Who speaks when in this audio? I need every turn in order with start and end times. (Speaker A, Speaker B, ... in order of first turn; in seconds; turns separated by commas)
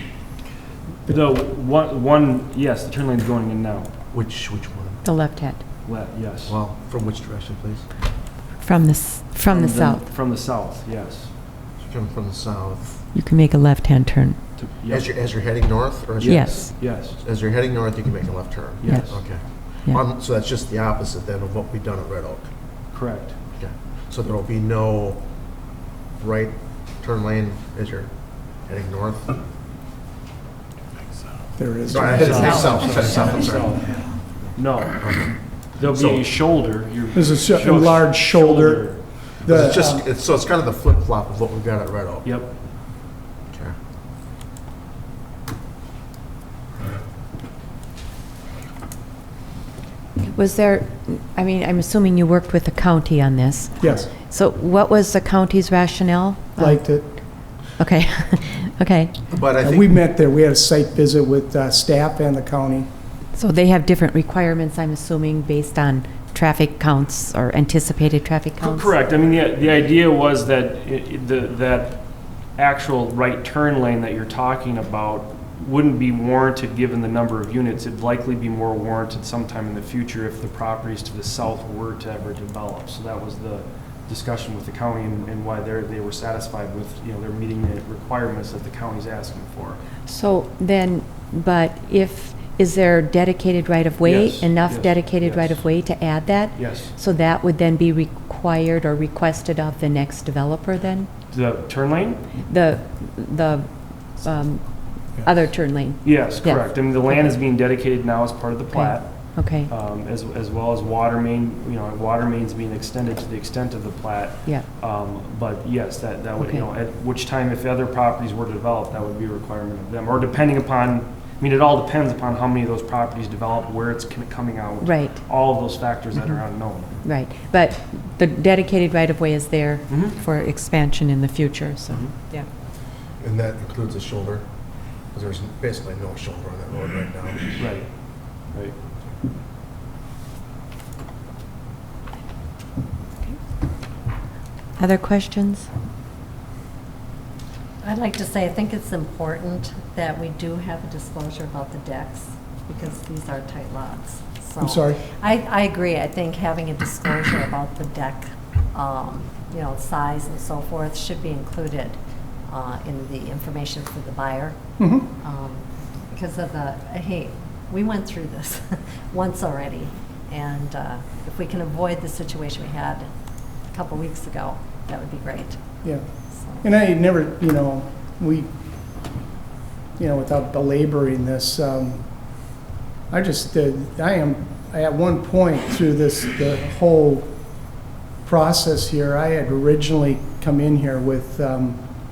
Speaker A: 1.1-3.9, Speaker B: 4.1-5.0, Speaker C: 5.0-5.6, Speaker A: 5.8-6.6, Speaker B: 6.5-7.9, Speaker C: 8.6-10.0, Speaker A: 9.5-11.3, Speaker B: 11.8-13.0, Speaker C: 13.1-14.4, Speaker A: 14.6-15.1, Speaker B: 14.9-22.5, Speaker A: 16.2-17.2, Speaker C: 16.2-16.7, Speaker A: 18.8-19.2, Speaker C: 18.9-19.2, Speaker A: 22.9-23.4, Speaker B: 23.6-25.2, Speaker B: 26.2-28.1, Speaker B: 28.6-29.4, Speaker D: 31.6-32.9, Speaker B: 31.9-33.8, Speaker A: 32.1-33.9, Speaker A: 34.5-35.0, Speaker B: 35.0-36.2, Speaker A: 35.8-39.0, Speaker D: 37.1-40.0, Speaker B: 39.4-42.3, Speaker A: 42.2-42.5, Speaker C: 50.2-56.8, Speaker D: 53.8-54.1, Speaker D: 56.6-57.1, Speaker C: 57.8-59.2, Speaker B: 59.3-59.9, Speaker D: 59.6-62.9, Speaker C: 63.3-68.9, Speaker A: 68.6-72.0, Speaker A: 72.5-89.8, Speaker C: 90.1-101.1, Speaker A: 94.0-95.6, Speaker A: 96.5-96.9, Speaker A: 101.3-102.2, Speaker C: 102.4-107.3, Speaker A: 106.0-127.0, Speaker C: 108.7-109.7, Speaker C: 116.4-116.7, Speaker C: 124.8-125.2, Speaker C: 127.0-132.5, Speaker A: 129.9-130.2, Speaker B: 133.2-134.5, Speaker B: 135.1-137.5, Speaker A: 137.6-137.9, Speaker A: 138.5-138.7, Speaker C: 144.8-145.7, Speaker E: 147.8-164.6, Speaker D: 154.6-155.0, Speaker D: 164.8-165.1, Speaker E: 165.2-173.1, Speaker E: 173.7-175.6, Speaker E: 176.3-176.6, Speaker D: 176.6-178.5, Speaker D: 180.0-182.0, Speaker D: 183.1-187.3, Speaker D: 188.2-191.8